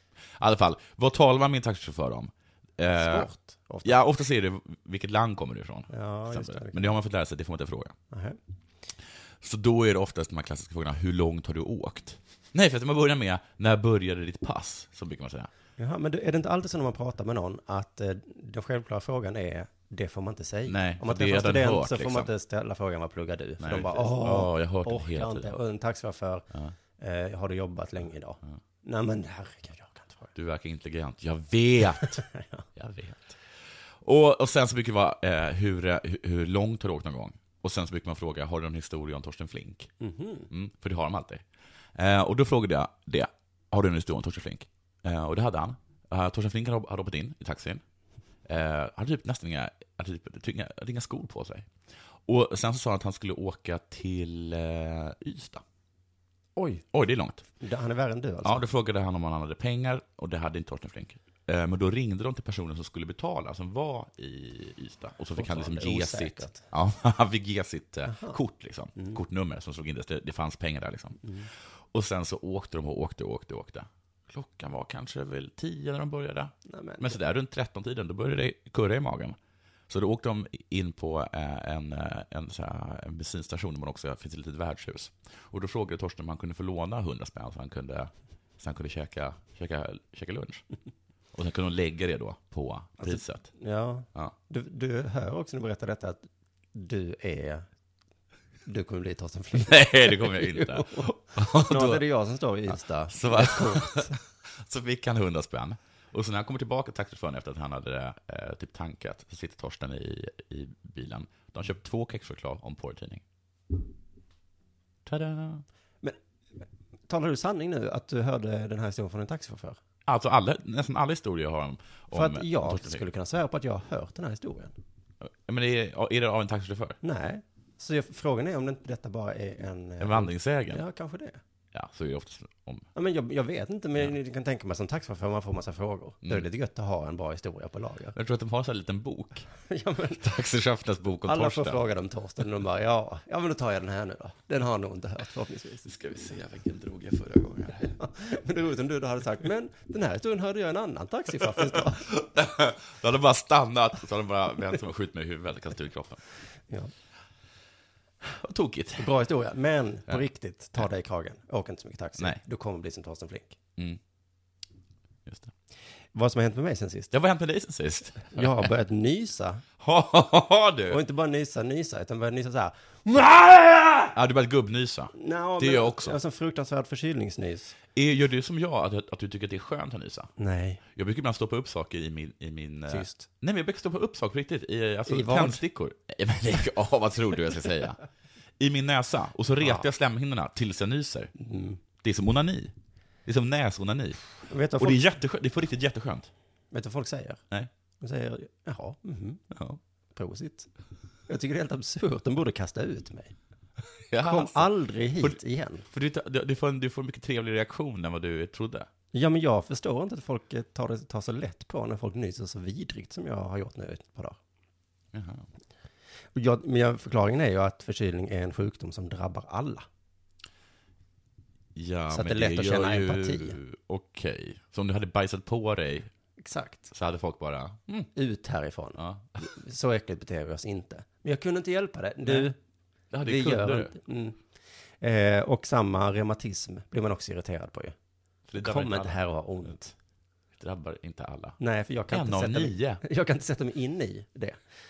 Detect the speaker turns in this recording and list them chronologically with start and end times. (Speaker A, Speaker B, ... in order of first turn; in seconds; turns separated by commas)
Speaker A: 0.3-3.3, Speaker B: 3.0-4.0, Speaker A: 3.8-7.9, Speaker B: 5.9-6.9, Speaker B: 8.1-8.4, Speaker A: 9.4-15.5, Speaker B: 15.8-26.5, Speaker A: 20.7-22.3, Speaker A: 23.6-25.6, Speaker B: 27.0-30.3, Speaker A: 30.3-32.2, Speaker B: 32.0-32.6, Speaker A: 32.7-33.4, Speaker A: 34.0-39.9, Speaker B: 40.0-40.5, Speaker A: 40.5-41.4, Speaker A: 41.9-47.8, Speaker A: 48.5-51.7, Speaker A: 52.2-55.6, Speaker B: 56.5-56.8, Speaker A: 56.9-57.4, Speaker B: 57.6-58.6, Speaker A: 58.4-79.4, Speaker B: 65.3-66.6, Speaker B: 68.1-68.4, Speaker B: 76.6-77.2, Speaker A: 79.9-90.6, Speaker A: 91.3-93.5, Speaker B: 93.0-97.7, Speaker B: 98.7-104.2, Speaker A: 99.5-102.0, Speaker A: 102.7-113.2, Speaker A: 115.0-115.6, Speaker B: 117.1-119.8, Speaker A: 120.0-123.0, Speaker B: 122.1-124.7, Speaker A: 125.2-127.0, Speaker B: 127.0-131.4, Speaker A: 130.0-130.8, Speaker A: 131.7-132.9, Speaker B: 132.9-138.2, Speaker A: 138.1-139.5, Speaker B: 139.7-140.2, Speaker A: 140.2-141.8, Speaker B: 141.2-145.9, Speaker A: 145.8-148.0, Speaker B: 148.0-152.1, Speaker A: 151.5-156.2, Speaker A: 158.2-159.1, Speaker B: 159.0-163.6, Speaker A: 165.2-165.5, Speaker B: 166.1-167.1, Speaker A: 167.1-168.7, Speaker B: 168.2-169.6, Speaker A: 169.8-171.0, Speaker B: 170.9-174.1, Speaker A: 174.1-176.2, Speaker B: 175.1-177.8, Speaker A: 177.9-180.3, Speaker B: 180.4-180.8, Speaker A: 180.9-188.0, Speaker B: 182.9-183.3, Speaker B: 185.1-185.6, Speaker A: 188.6-191.3, Speaker B: 189.6-189.8, Speaker B: 191.3-191.8, Speaker A: 192.0-192.7, Speaker A: 193.2-194.2, Speaker B: 194.5-195.0, Speaker A: 194.8-196.3, Speaker B: 196.7-197.4, Speaker B: 198.0-199.4, Speaker A: 199.5-199.8, Speaker B: 200.1-200.7, Speaker B: 201.3-203.3, Speaker A: 204.1-205.4, Speaker B: 204.2-205.8, Speaker A: 205.9-208.9, Speaker B: 209.1-214.4, Speaker A: 215.1-215.4, Speaker B: 216.3-219.8, Speaker A: 221.7-226.1, Speaker B: 222.1-223.6, Speaker B: 226.4-226.9, Speaker A: 226.9-228.1, Speaker B: 228.1-232.6, Speaker A: 229.0-229.4, Speaker A: 232.2-232.5, Speaker A: 233.1-233.9, Speaker B: 233.2-234.4, Speaker B: 235.0-237.9, Speaker A: 238.5-239.2, Speaker B: 238.6-239.9, Speaker A: 240.6-241.6, Speaker B: 241.6-244.6, Speaker A: 242.1-243.0